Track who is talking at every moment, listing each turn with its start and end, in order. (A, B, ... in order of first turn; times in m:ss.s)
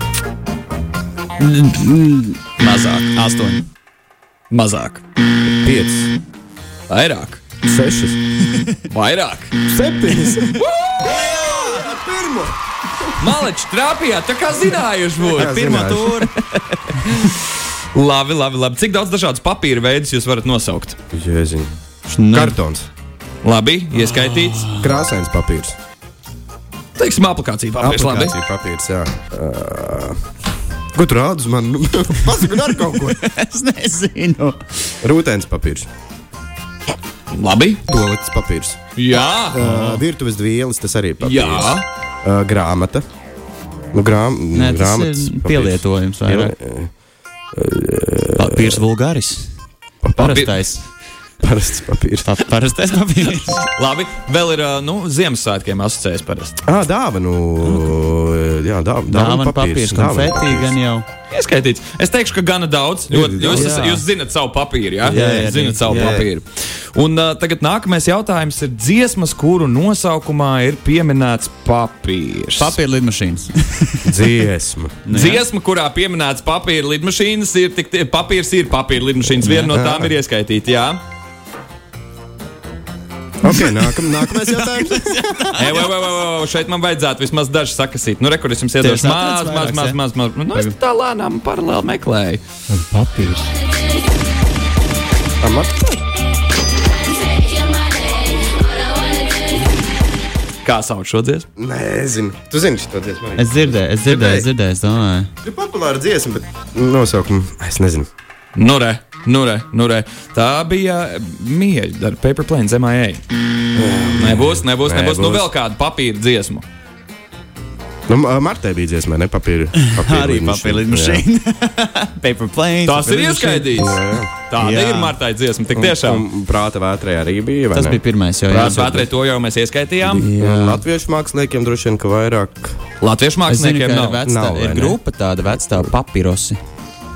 0:01.4-0:03.6 A
0:04.5-0:05.0 B
0:05.4-0:06.1 C
0:06.9-0:07.4 B
0:07.6-0:08.2 C
0:08.9-0:09.6 B
0:09.6-0:13.1 C
0:10.6-0:11.0 B
0:11.3-0:11.8 A
0:13.2-0:16.3 B
0:15.3-0:16.2 C
0:15.4-0:16.4 A
0:17.0-0:21.0 B
0:21.1-0:21.7 C
0:22.1-0:22.6 A
0:22.3-0:22.9 C
0:23.4-0:24.7 B
0:23.9-0:24.9 A
0:24.8-0:25.8 C
0:27.0-0:28.4 B
0:27.8-0:30.2 C
0:30.9-0:33.3 C
0:33.0-0:34.6 A
0:35.0-0:35.9 C
0:37.3-0:37.8 B
0:37.9-0:38.8 C
0:39.0-0:39.8 B
0:39.5-0:43.0 C
0:39.6-0:40.0 A
0:41.2-0:41.8 B
0:43.9-0:46.9 C
0:44.5-0:46.5 A
0:47.5-0:48.8 C
0:48.4-0:49.5 A
0:50.0-0:50.4 C
0:50.2-0:50.8 A
0:50.2-0:50.6 B
0:51.4-0:52.3 C
0:52.2-0:53.6 A
0:53.3-0:56.6 B
0:56.6-1:00.8 C
0:59.1-1:01.0 A
1:01.3-1:12.8 B
1:03.1-1:03.8 C
1:03.4-1:04.0 A
1:05.0-1:06.2 A
1:05.0-1:06.3 C
1:12.6-1:14.3 A
1:14.0-1:15.0 C
1:15.0-1:15.4 A
1:15.1-1:21.0 B
1:19.4-1:19.7 A
1:19.7-1:20.1 C
1:23.4-1:25.8 C
1:23.4-1:25.8 A
1:25.6-1:32.4 B
1:28.8-1:30.0 A
1:32.8-1:33.4 A
1:35.4-1:36.0 C
1:37.2-1:39.8 D
1:40.6-1:41.4 B
1:41.6-1:44.5 C
1:43.4-1:45.3 A
1:45.4-1:48.1 C
1:48.5-1:53.2 B
1:53.7-1:55.5 C
1:54.2-1:56.6 B
1:58.1-2:01.2 C
1:59.8-2:03.9 A
2:02.8-2:06.2 B
2:03.7-2:04.3 C
2:04.6-2:05.2 A
2:05.7-2:08.0 C
2:07.7-2:09.1 A
2:08.5-2:10.3 B
2:10.1-2:10.8 A
2:10.3-2:12.8 C
2:13.0-2:14.2 B
2:13.5-2:16.6 A
2:14.2-2:15.0 C
2:15.5-2:15.9 C